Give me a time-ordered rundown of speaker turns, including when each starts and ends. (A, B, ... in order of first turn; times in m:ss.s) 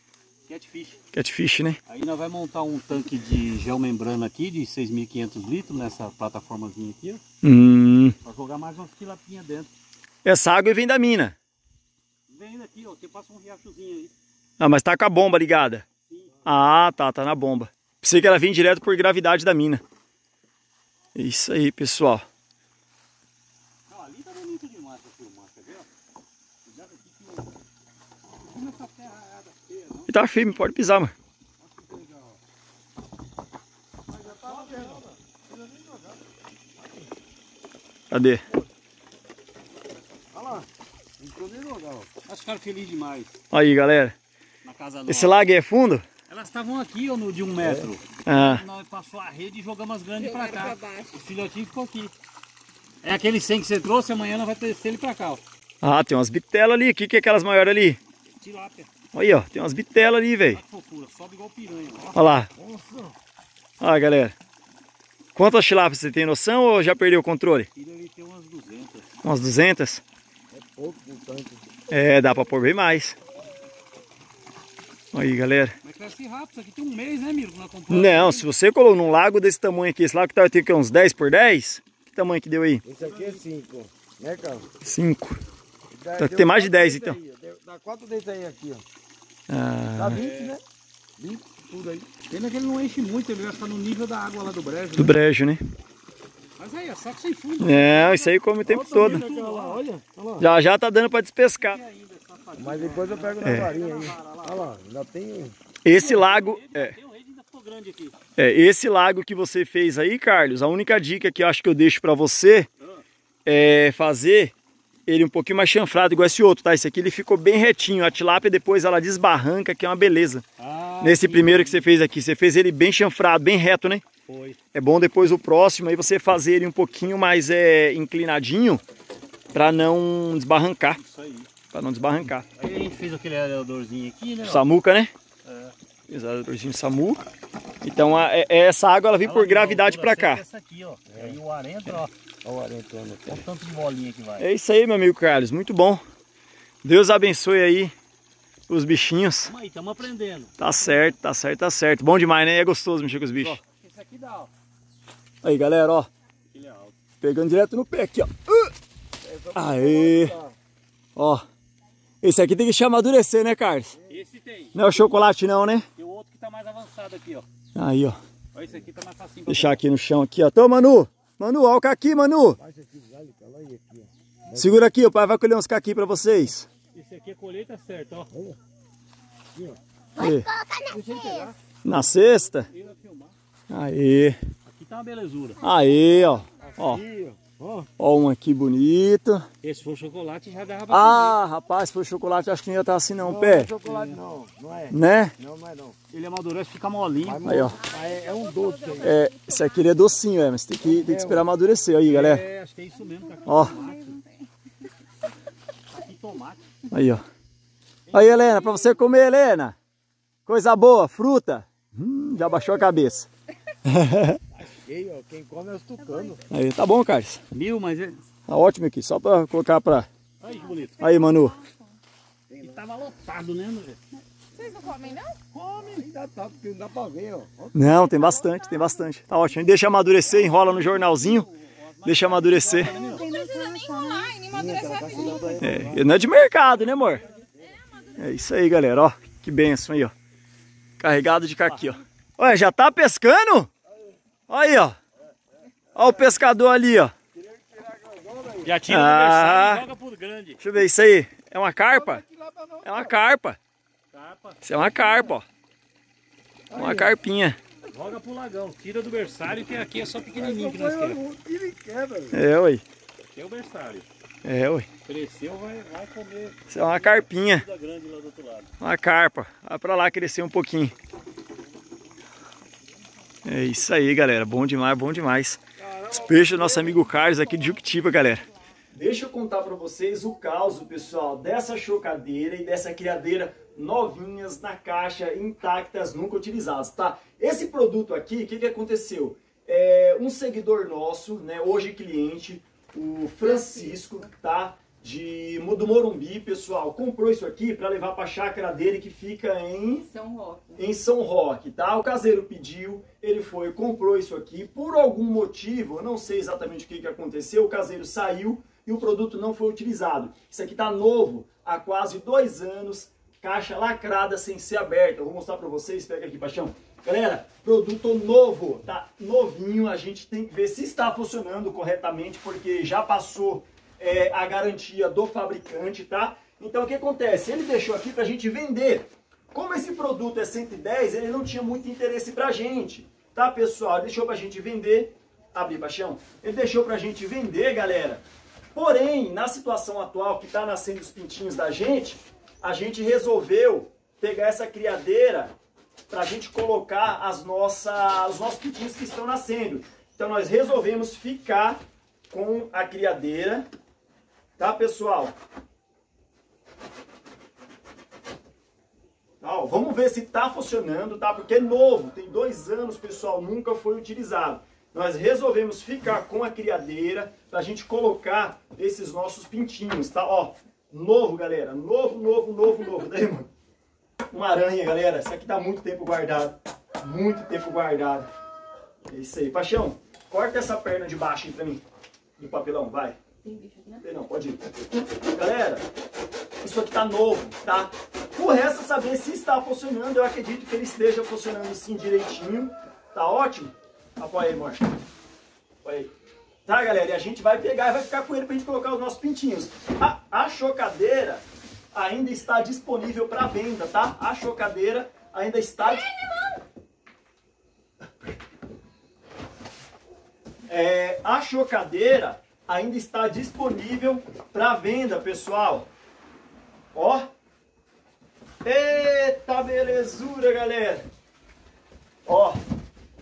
0:00.5-0:01.0 A
0:01.1-0:01.8 B
0:01.9-0:07.2 A
0:07.4-0:08.1 B
0:08.2-0:09.7 A
0:10.2-0:11.3 B
0:12.3-0:14.1 A
0:14.6-0:15.8 B
0:16.1-0:16.4 A
0:16.4-0:19.8 B
0:21.1-0:22.2 B
0:23.9-0:25.9 A
0:26.6-0:27.6 A
0:28.4-0:30.1 A
0:30.1-0:31.1 B
0:31.7-0:32.3 C
0:34.1-0:36.2 C
0:34.3-0:35.0 A
0:38.1-0:38.4 B
0:40.3-0:40.7 C
0:41.2-0:42.1 C
0:42.2-0:43.3 A
0:43.5-0:44.1 B
0:44.6-0:45.4 A
0:45.1-0:46.0 B
0:46.3-0:52.1 A
0:47.6-0:47.9 C
0:48.2-0:48.6 B
0:50.2-0:51.2 D
0:53.0-0:55.4 A
0:55.8-0:58.0 B
0:58.4-0:58.9 A
0:59.1-1:00.6 B
1:00.5-1:02.4 A
1:02.1-1:02.5 B
1:02.5-1:03.1 C
1:03.8-1:04.3 B
1:05.3-1:07.7 B
1:07.7-1:09.1 A
1:09.2-1:10.0 B
1:10.5-1:11.6 C
1:11.9-1:13.2 B
1:15.1-1:15.7 B
1:15.8-1:18.4 A
1:17.9-1:22.8 B
1:22.8-1:24.7 C
1:23.0-1:23.4 A
1:24.8-1:25.4 B
1:25.9-1:28.8 C
1:26.2-1:27.2 B
1:29.5-1:30.2 B
1:29.9-1:30.6 C
1:30.1-1:30.6 A
1:31.2-1:32.1 C
1:32.3-1:35.1 A
1:35.0-1:35.6 B
1:36.6-1:38.3 A
1:37.6-1:39.2 B
1:38.6-1:40.5 C
1:38.9-1:39.8 A
1:40.4-1:41.8 B
1:41.6-1:44.6 A
1:42.6-1:45.6 C
1:43.4-1:43.7 B
1:45.8-1:46.9 B
1:45.9-1:48.2 A
1:48.4-1:52.7 B
1:53.4-1:54.5 B
1:55.1-2:00.4 B
2:00.6-2:01.8 A
2:01.0-2:04.0 B
2:04.3-2:04.6 A
2:04.7-2:08.8 B
2:09.5-2:11.0 B
2:10.9-2:11.5 A
2:11.7-2:12.4 B
2:12.6-2:14.7 A
2:14.4-2:15.1 B
2:15.4-2:15.7 A
2:16.1-2:17.2 B
2:17.8-2:20.4 B
2:19.2-2:22.1 A
2:21.1-2:21.4 C
2:22.4-2:23.4 C
2:23.2-2:24.4 A
2:24.4-2:26.0 B
2:26.8-2:27.9 B
2:28.7-2:29.5 B
2:29.5-2:30.5 A
2:30.6-2:33.6 B
2:33.4-2:34.5 A
2:35.4-2:36.1 B
2:36.5-2:36.9 A
2:37.2-2:38.7 B
2:39.2-2:40.5 C
2:39.5-2:40.3 B
2:41.2-2:41.4 B
2:42.2-2:44.0 B
2:44.1-2:44.7 A
2:44.7-2:45.8 B
2:46.0-2:47.5 A
2:47.7-2:48.2 B
2:48.5-2:49.8 A
2:49.5-2:52.6 B
2:52.6-2:54.8 C
2:54.5-2:56.7 B
2:56.9-2:58.3 A
2:58.3-2:58.6 C
3:00.2-3:00.5 B
3:00.2-3:00.9 D
3:00.9-3:01.5 A
3:00.9-3:01.4 C
3:01.8-3:02.7 B
3:02.7-3:03.3 A
3:03.7-3:04.4 B
3:04.6-3:05.6 A
3:05.6-3:07.0 B
3:06.8-3:07.9 C
3:08.0-3:09.5 B
3:09.6-3:11.4 A
3:10.9-3:13.7 B
3:13.2-3:16.0 C
3:13.8-3:14.2 A
3:14.9-3:15.3 B
3:16.1-3:17.5 A
3:17.2-3:19.2 C
3:17.4-3:17.8 B
3:17.5-3:19.8 D
3:19.0-3:22.4 B
3:20.8-3:21.4 C
3:22.1-3:24.2 A
3:23.3-3:24.5 D
3:23.4-3:23.7 B
3:25.9-3:26.6 A
3:26.9-3:27.2 B
3:28.1-3:29.7 B
3:30.4-3:33.3 B
3:33.8-3:34.4 B
3:34.5-3:36.4 C
3:36.5-3:37.4 B
3:37.5-3:38.2 A
3:38.5-3:40.1 B
3:40.4-3:41.0 A
3:40.5-3:41.8 D
3:41.0-3:41.6 B
3:42.5-3:42.8 C
3:42.6-3:44.0 A
3:44.5-3:45.4 D
3:45.5-3:47.7 C
3:47.7-3:51.5 B
3:50.2-3:53.2 A
3:52.0-3:52.9 B
3:52.8-3:55.7 D
3:54.5-3:56.1 C
3:55.6-3:57.2 B
3:58.2-4:00.1 B
4:01.0-4:03.7 B
4:01.6-4:02.0 A
4:04.5-4:05.0 B
4:05.9-4:07.1 B
4:07.3-4:08.8 C
4:08.6-4:10.6 A
4:08.9-4:09.8 B
4:10.6-4:12.2 B
4:11.9-4:13.2 C
4:12.8-4:13.6 B
4:14.1-4:14.6 A
4:14.6-4:15.4 B
4:16.7-4:17.1 C
4:16.7-4:17.6 B
4:17.9-4:21.2 A
4:20.3-4:22.4 C
4:22.3-4:22.8 B
4:23.3-4:24.0 A
4:24.4-4:24.9 B
4:25.0-4:28.7 A
4:26.7-4:27.6 B
4:28.8-4:30.9 B
4:33.4-4:35.6 B
4:35.8-4:37.1 C
4:36.1-5:00.1 B
4:53.4-4:54.0 D
5:00.1-5:00.9 D
5:00.8-5:38.2 B
5:38.7-5:45.5 B
5:46.1-5:53.6 B
5:54.6-5:55.3 B
5:59.4-6:13.5 B
6:14.3-6:18.3 B
6:19.1-6:21.8 B
6:22.4-6:23.2 B
6:23.4-6:24.0 D
6:24.0-6:25.8 B
6:26.6-6:34.9 B
6:35.8-6:36.1 B
6:36.6-6:46.1 B
6:50.7-6:55.9 B
6:56.9-6:57.3 B
6:58.6-7:01.0 B
7:02.2-7:02.6 B